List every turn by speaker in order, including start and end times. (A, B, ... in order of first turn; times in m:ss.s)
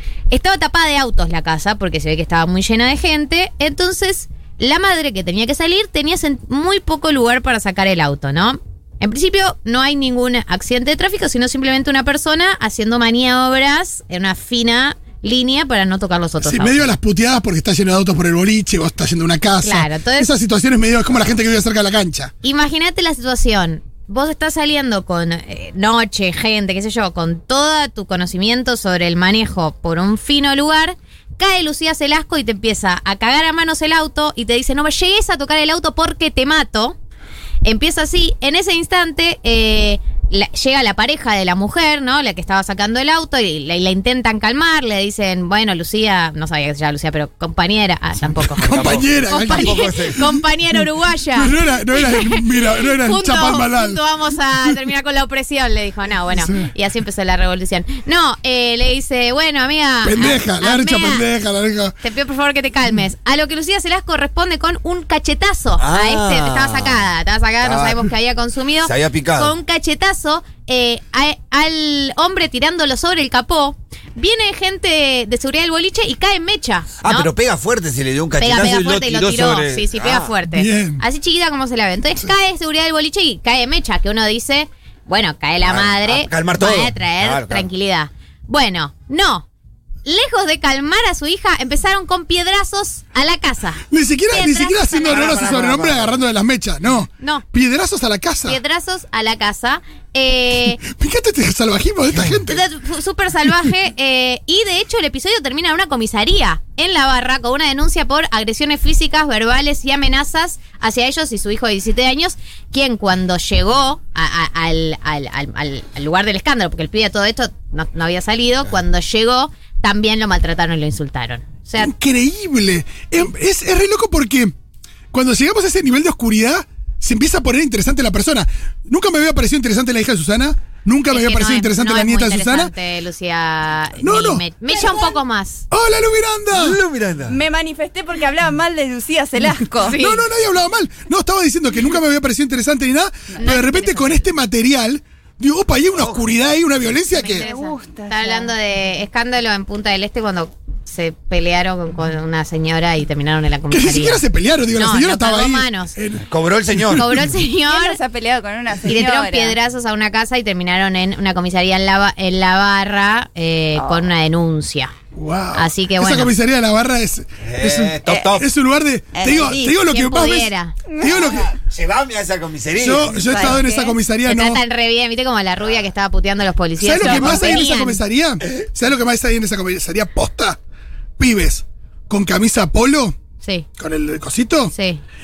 0:00.3-0:16.9 A
0:16.4-0:22.3 B
0:19.6-0:20.3 A
0:22.4-0:37.0 A
0:37.6-1:01.2 A
0:48.3-0:50.3 B
0:48.6-0:50.3 C
0:51.4-0:54.0 B
0:56.3-0:56.7 B
1:00.0-1:02.0 B
1:02.0-1:17.3 A
1:05.8-1:07.0 C
1:07.6-1:08.0 C
1:08.8-1:09.5 C
1:17.0-1:20.3 C
1:18.4-1:29.5 A
1:20.5-1:21.0 B
1:25.6-1:27.7 C
1:30.0-1:35.6 A
1:33.9-1:38.6 B
1:35.1-1:36.2 C
1:37.2-1:37.4 A
1:38.4-1:40.8 A
1:40.8-1:42.6 B
1:42.5-2:01.9 A
2:01.8-2:04.5 B
2:05.1-2:12.7 B
2:11.1-2:15.6 A
2:14.0-2:14.4 B
2:15.7-2:16.8 B
2:16.5-2:17.4 C
2:17.3-2:20.0 D
2:19.8-2:20.2 A
2:19.9-2:27.5 B
2:23.4-2:24.3 A
2:26.0-2:26.3 C
2:27.1-2:36.0 A
2:27.3-2:28.5 D
2:33.7-2:37.1 B
2:36.3-2:37.2 C
2:36.9-2:38.0 A
2:37.7-2:39.6 D
2:38.9-2:44.9 A
2:43.8-2:44.0 D
2:45.1-2:51.5 B
2:45.5-2:46.3 A
2:47.4-2:48.5 C
2:48.1-2:48.4 D
2:49.1-2:49.8 D
2:49.8-2:50.8 A
2:50.9-2:51.2 D
2:51.1-2:53.4 C
2:52.8-2:54.6 B
2:53.1-2:53.6 D
2:53.4-2:58.0 A
2:56.8-3:00.6 B
2:57.0-2:57.6 D
3:01.2-3:03.2 B
3:03.8-3:04.7 B
3:04.7-3:05.0 A